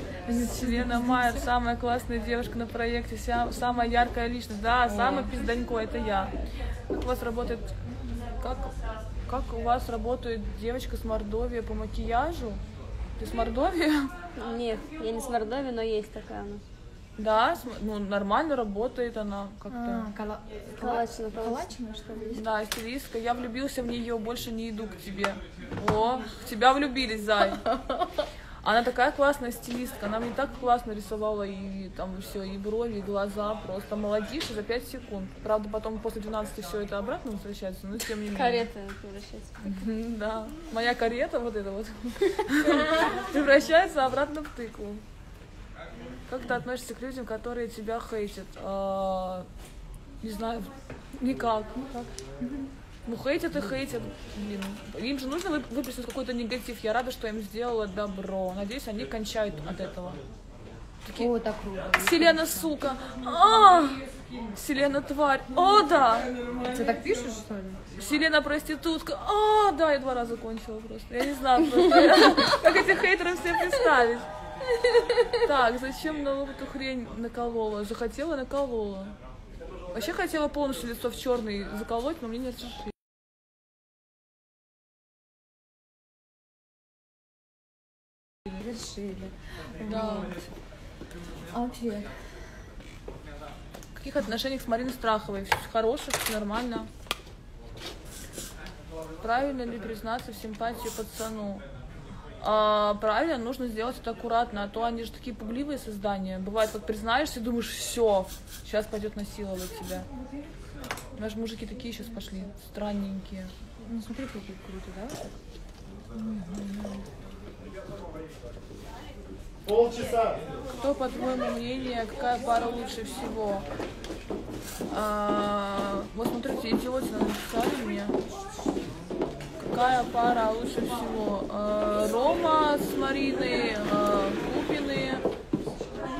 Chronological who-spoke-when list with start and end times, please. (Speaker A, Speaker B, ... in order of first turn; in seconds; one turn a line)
Speaker A: 0.3-1.5
Speaker B: 0.3-6.3
Speaker A: 4.9-5.3
Speaker B: 6.9-7.7
Speaker B: 8.4-8.7
Speaker B: 9.3-12.6
Speaker B: 13.2-14.1
Speaker C: 14.4-16.6
Speaker B: 17.2-20.1
Speaker A: 19.7-22.4
Speaker C: 20.7-21.7
Speaker B: 22.4-27.7
Speaker B: 28.6-38.7
Speaker C: 38.3-39.6
Speaker B: 39.6-45.0
Speaker B: 46.3-49.5
Speaker B: 50.2-52.1
Speaker B: 53.1-60.2
Speaker B: 61.0-61.3
Speaker A: 61.1-62.7
Speaker B: 62.0-64.0
Speaker B: 64.5-66.3
Speaker A: 66.6-67.8
Speaker B: 68.0-74.3
Speaker B: 75.3-79.2
Speaker B: 79.9-82.9
Speaker A: 88.5-90.4
Speaker B: 89.8-90.5
Speaker A: 91.5-92.2
Speaker B: 94.0-96.9
Speaker B: 99.2-101.6
Speaker B: 102.4-110.1
Speaker B: 111.2-113.5
Speaker A: 113.9-115.3
Speaker A: 116.2-117.1
Speaker B: 120.8-123.7
Speaker B: 124.9-128.2
Speaker B: 129.6-135.2